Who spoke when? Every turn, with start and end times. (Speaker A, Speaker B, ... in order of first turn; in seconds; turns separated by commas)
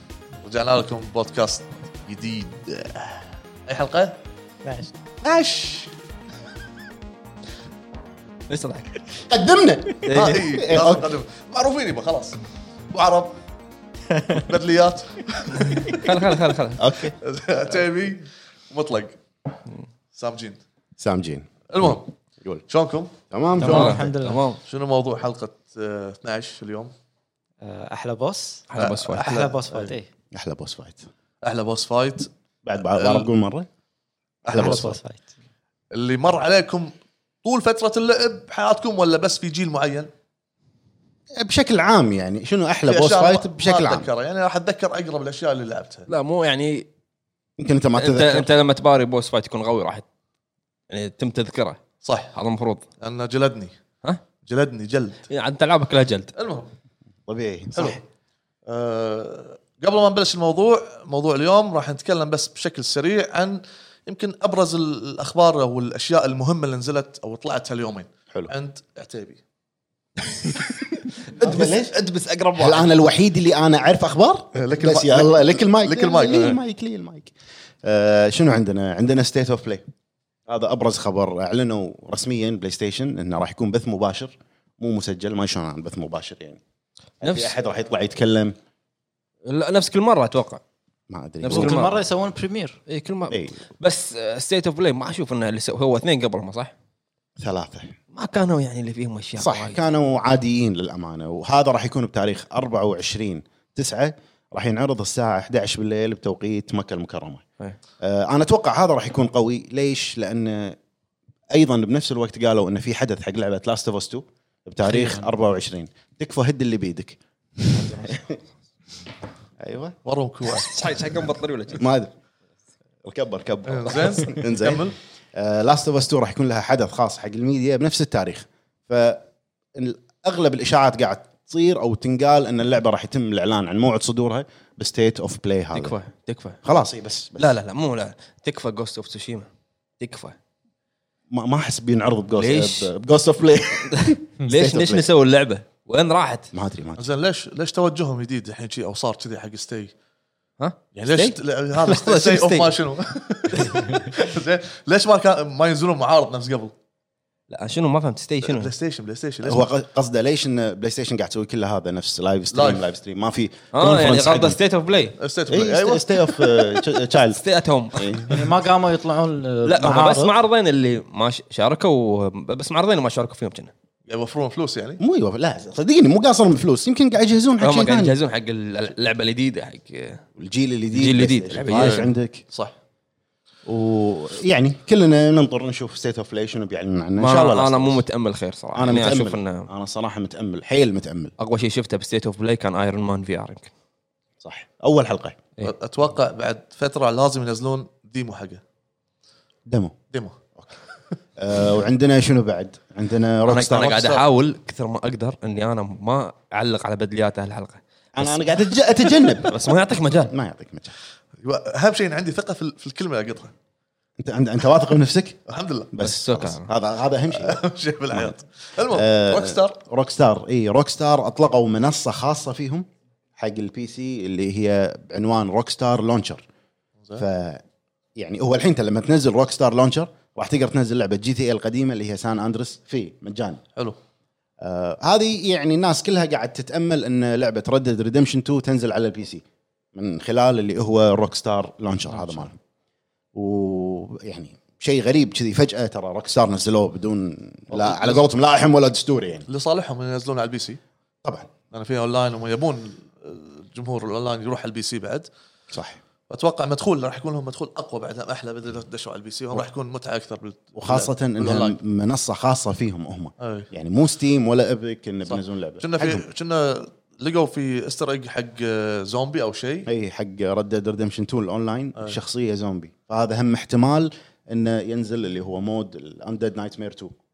Speaker A: 0.4-4.2, Speaker B: 4.6-4.9, Speaker A: 5.2-5.8, Speaker C: 8.5-9.0, Speaker D: 9.3-11.1, Speaker C: 10.1-10.6, Speaker A: 10.1-13.4, Speaker B: 14.1-14.4, Speaker A: 14.3-16.1, Speaker C: 15.9-16.9, Speaker D: 16.8-17.1, Speaker A: 17.2-19.2, Speaker A: 20.1-20.6, Speaker D: 21.0-22.6, Speaker A: 21.7-22.1, Speaker A: 22.7-24.0, Speaker D: 23.3-24.1, Speaker B: 23.6-24.4, Speaker C: 23.6-24.6, Speaker A: 24.6-26.9, Speaker B: 27.6-30.1, Speaker C: 28.7-29.4, Speaker A: 28.8-29.9, Speaker D: 30.3-31.0, Speaker A: 31.4-32.3, Speaker D: 32.6-33.7, Speaker A: 33.0-33.3, Speaker D: 34.5-35.0, Speaker B: 34.5-35.3, Speaker A: 35.9-40.1, Speaker D: 41.3-44.1, Speaker A: 42.9-46.1, Speaker C: 46.1-46.9, Speaker D: 47.6-48.5, Speaker C: 48.0-50.0, Speaker C: 50.9-52.8, Speaker A: 52.0-52.3, Speaker A: 53.0-53.7, Speaker A: 54.4-55.2, Speaker C: 55.3-56.3, Speaker A: 56.4-56.7, Speaker D: 57.3-58.0, Speaker A: 57.8-58.0, Speaker A: 58.7-69.4, Speaker D: 71.4-72.0, Speaker C: 71.4-72.9, Speaker A: 71.4-71.7, Speaker D: 72.5-77.3, Speaker A: 74.5-76.6, Speaker D: 77.8-79.8, Speaker D: 80.5-86.6, Speaker D: 87.2-88.5, Speaker C: 87.2-87.5, Speaker C: 89.4-90.6, Speaker D: 91.1-92.0, Speaker B: 91.4-92.8, Speaker C: 91.5-91.9, Speaker C: 92.9-96.7, Speaker D: 93.3-93.5, Speaker D: 97.4-98.0, Speaker C: 98.1-99.8, Speaker D: 99.4-107.4, Speaker D: 108.0-110.8, Speaker D: 111.5-118.4, Speaker D: 119.6-120.0, Speaker A: 120.0-120.7, Speaker C: 120.5-121.8, Speaker D: 121.8-122.1, Speaker D: 123.0-129.2, Speaker A: 123.7-125.0, Speaker D: 129.8-135.9, Speaker C: 135.7-136.6, Speaker D: 136.6-137.6, Speaker C: 137.4-139.5, Speaker C: 140.0-140.3, Speaker D: 141.3-145.0, Speaker C: 142.3-142.9, Speaker C: 143.9-146.5, Speaker D: 146.5-147.1, Speaker A: 146.9-149.9, Speaker C: 150.6-152.8, Speaker A: 150.9-156.7, Speaker C: 153.5-154.1, Speaker C: 157.5-158.7, Speaker A: 158.4-159.7, Speaker D: 159.4-164.6, Speaker A: 162.5-162.8, Speaker C: 163.7-165.2, Speaker A: 165.2-166.0, Speaker D: 165.5-167.4, Speaker C: 166.6-168.4, Speaker D: 167.9-168.3, Speaker B: 168.3-170.3, Speaker C: 169.6-173.7, Speaker A: 174.1-175.0, Speaker D: 175.0-178.1, Speaker C: 177.6-180.2, Speaker D: 180.4-182.4, Speaker C: 180.9-182.1, Speaker A: 181.7-182.7, Speaker D: 183.7-188.0, Speaker C: 187.2-189.7, Speaker D: 188.7-191.3, Speaker C: 191.4-193.7, Speaker D: 194.4-195.5, Speaker A: 195.6-198.6, Speaker D: 199.7-199.9, Speaker A: 200.1-200.4, Speaker D: 201.4-204.1, Speaker C: 203.5-210.3, Speaker A: 203.8-204.2, Speaker D: 208.2-210.9, Speaker A: 211.4-213.5, Speaker D: 214.2-215.4, Speaker A: 215.5-215.9, Speaker D: 215.9-217.6, Speaker C: 216.0-216.7, Speaker A: 217.3-219.8, Speaker D: 218.9-222.8, Speaker D: 223.4-226.4, Speaker D: 227.2-227.6, Speaker D: 228.2-233.6, Speaker D: 234.6-239.4, Speaker D: 239.9-242.6, Speaker D: 243.3-249.4, Speaker A: 247.7-248.2, Speaker A: 249.5-250.8, Speaker D: 251.2-251.5, Speaker A: 251.7-255.3, Speaker D: 255.7-256.0, Speaker A: 256.3-261.8, Speaker D: 260.8-266.2, Speaker A: 263.4-263.7, Speaker A: 265.3-269.9, Speaker D: 269.9-277.1